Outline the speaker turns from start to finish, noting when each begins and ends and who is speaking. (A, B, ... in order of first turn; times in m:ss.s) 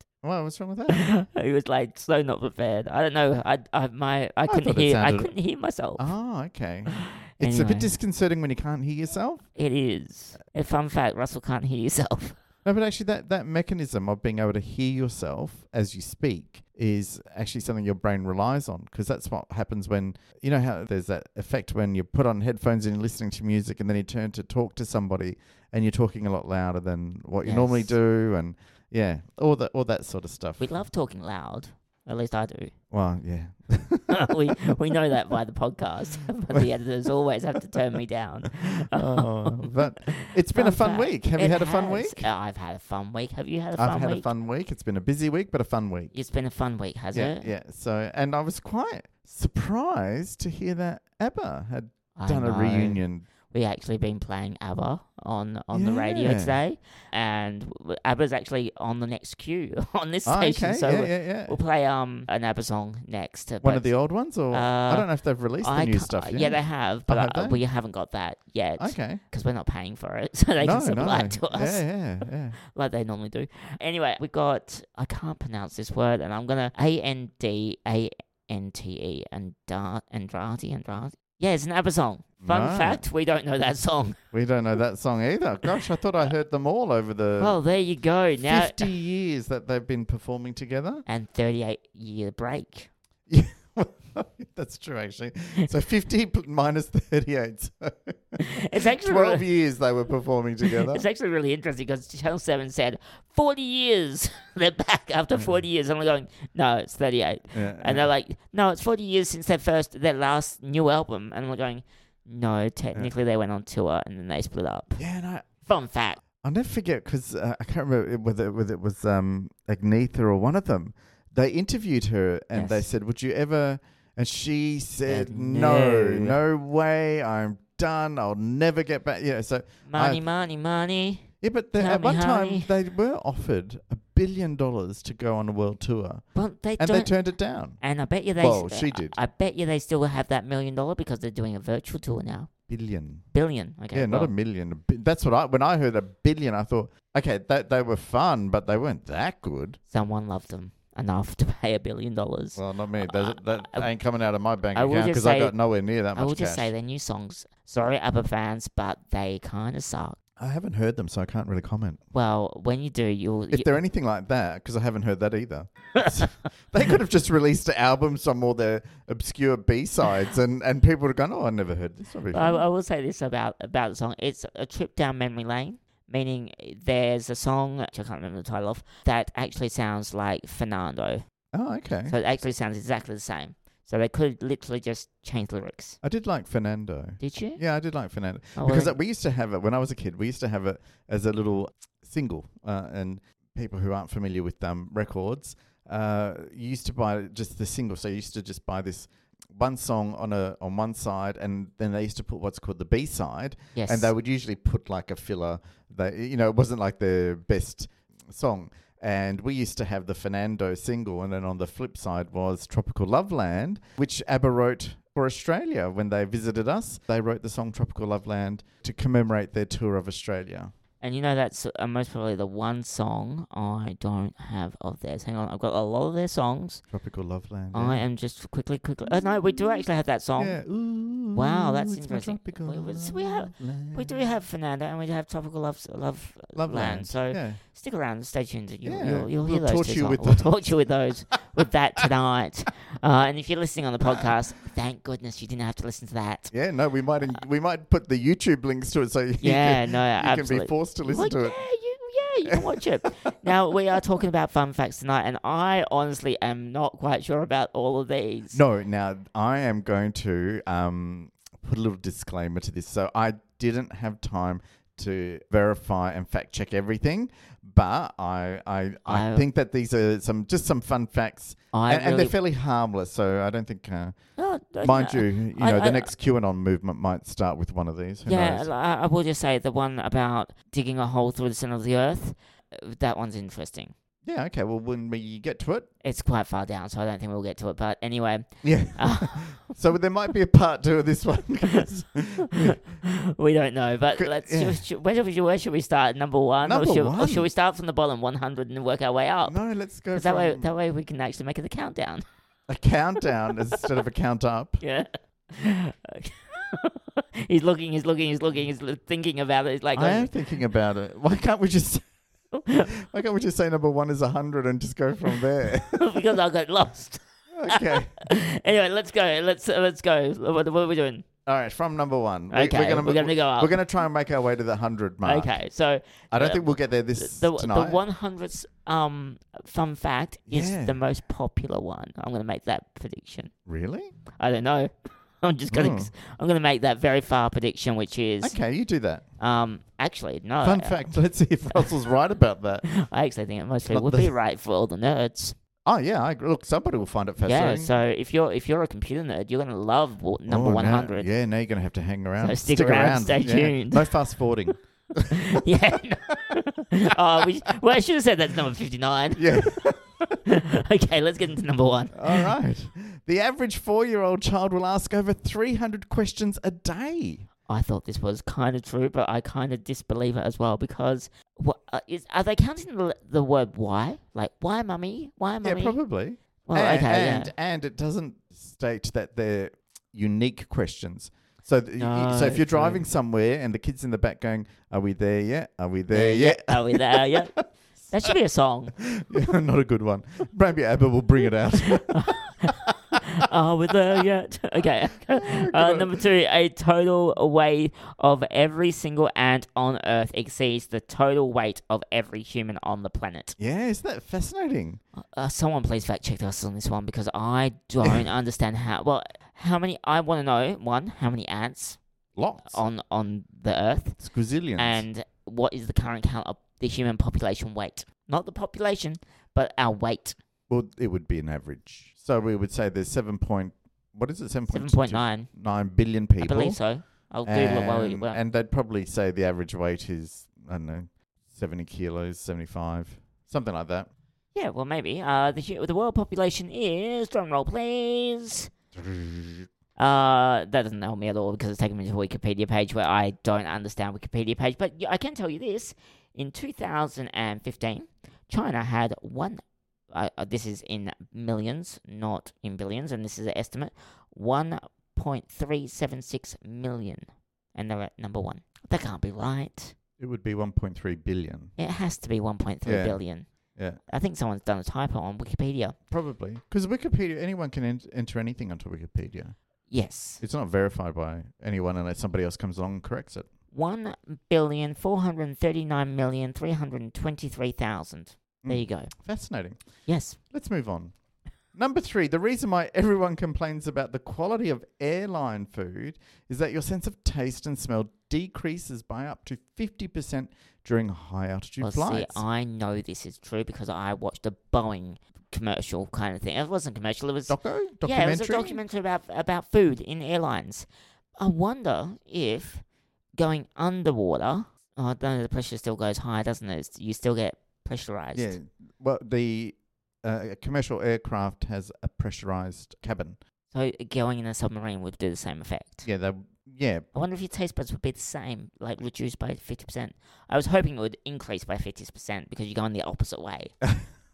0:00.2-0:01.0 A
0:00.9-0:06.1 B
0:04.5-0:05.3 A
0:06.0-0:09.4 A
0:06.9-0:07.9 B
0:09.6-0:12.4 B
0:12.6-0:30.6 A
0:27.4-0:27.9 B
0:30.6-0:32.7 B
0:32.9-0:34.7 A
0:34.1-0:44.3 B
0:37.7-0:38.0 A
0:38.6-0:42.3 A
0:43.8-0:46.1 A
0:46.1-0:47.5 B
0:47.1-0:53.2 A
0:52.2-1:03.9 B
0:55.7-0:56.6 A
1:00.2-1:01.6 A
1:03.6-1:07.6 A
1:04.5-1:05.1 B
1:05.6-1:11.8 B
1:08.8-1:09.2 A
1:10.6-1:12.6 A
1:12.6-1:24.2 B
1:22.4-1:23.0 A
1:24.3-1:27.6 A
1:27.4-1:28.9 B
1:28.4-1:31.0 A
1:31.0-1:32.9 B
1:33.3-1:41.0 A
1:38.4-1:39.4 B
1:40.6-1:55.0 B
1:47.5-1:48.1 A
1:55.0-1:55.5 A
1:55.6-1:56.2 B
1:56.4-2:10.2 A
2:02.5-2:02.8 B
2:05.0-2:06.4 B
2:09.8-2:12.7 B
2:11.4-2:16.2 A
2:16.3-2:17.1 B
2:16.8-2:17.8 A
2:17.8-2:22.5 B
2:18.4-2:19.2 A
2:22.7-2:23.2 A
2:23.3-2:24.3 B
2:23.9-2:29.8 A
2:29.9-2:33.9 B
2:32.6-2:36.7 A
2:34.7-2:35.5 B
2:36.1-2:40.2 B
2:40.4-2:42.0 A
2:42.1-2:43.8 B
2:43.5-2:52.6 A
2:46.0-2:46.3 B
2:52.3-3:01.2 B
3:01.5-3:02.2 A
3:02.1-3:06.0 B
3:06.0-3:40.7 A
3:07.2-3:07.6 B
3:08.6-3:08.9 B
3:23.7-3:24.1 B
3:41.0-3:46.8 B
3:46.9-3:48.0 A
3:47.7-3:50.6 B
3:49.0-3:49.9 A
3:50.4-3:54.3 A
3:51.3-4:06.5 B
3:56.5-3:57.6 A
3:58.8-4:00.7 A
4:04.0-4:04.3 A
4:06.5-4:11.6 A
4:09.4-4:18.6 B
4:12.5-4:13.3 A
4:18.5-4:34.2 A
4:29.0-4:29.4 B
4:31.7-4:32.3 B
4:34.4-4:36.1 B
4:34.8-4:38.7 A
4:38.2-4:43.9 B
4:44.2-4:45.9 A
4:46.0-4:49.5 B
4:48.6-4:52.8 A
4:52.5-4:59.6 B
4:54.1-4:54.8 A
4:56.6-4:57.5 A
4:59.4-5:00.7 A
5:00.1-5:02.2 B
5:02.7-5:04.8 A
5:04.8-5:10.3 B
5:09.9-5:12.1 A
5:12.5-5:12.9 B
5:12.7-5:16.0 A
5:15.9-5:21.2 B
5:17.5-5:18.2 A
5:21.4-5:25.5 A
5:22.5-5:23.8 B
5:25.2-5:33.5 B
5:26.3-5:28.0 A
5:30.5-5:31.0 A
5:33.6-5:34.1 A
5:34.4-5:38.6 B
5:35.7-5:36.1 A
5:38.4-5:39.2 A
5:39.4-5:41.0 B
5:40.6-5:42.8 A
5:42.8-5:45.5 B
5:43.9-5:44.3 A
5:45.8-5:47.9 A
5:47.4-5:51.3 B
5:50.5-5:55.6 A
5:52.4-5:54.1 B
5:55.3-6:02.5 B
5:59.4-6:00.4 A
6:02.1-6:07.5 A
6:07.7-6:16.0 B
6:15.6-6:27.5 A
6:16.6-6:17.5 B
6:22.0-6:23.0 B
6:26.1-6:27.6 B
6:28.1-6:29.0 B
6:29.0-6:33.2 A
6:31.8-6:43.5 B
6:35.3-6:36.2 A
6:43.6-6:45.0 A
6:45.2-6:52.0 B
6:52.4-6:52.8 A
6:52.6-6:54.2 B
6:54.2-6:55.0 A
6:54.8-7:00.4 B
7:00.7-7:06.8 A
7:04.7-7:05.5 B
7:06.4-7:08.4 B
7:07.4-7:14.1 A
7:14.5-7:18.7 B
7:18.9-7:19.7 A
7:20.0-7:39.9 B
7:40.2-7:41.7 A
7:41.8-7:43.5 B
7:42.8-7:43.2 A
7:44.1-7:46.0 B
7:46.1-7:49.6 A
7:49.9-7:50.4 B
7:50.4-7:53.5 A
7:53.7-7:59.1 B
7:58.6-7:59.8 A
8:00.1-8:00.4 B
8:00.5-8:01.1 A
8:01.7-8:12.4 A
8:11.8-8:20.9 B
8:17.5-8:18.8 A
8:21.4-8:22.8 B
8:23.4-8:28.6 B
8:28.3-8:33.4 A
8:33.7-8:36.1 B
8:36.0-8:37.1 A
8:37.1-8:43.7 B
8:43.8-8:44.1 A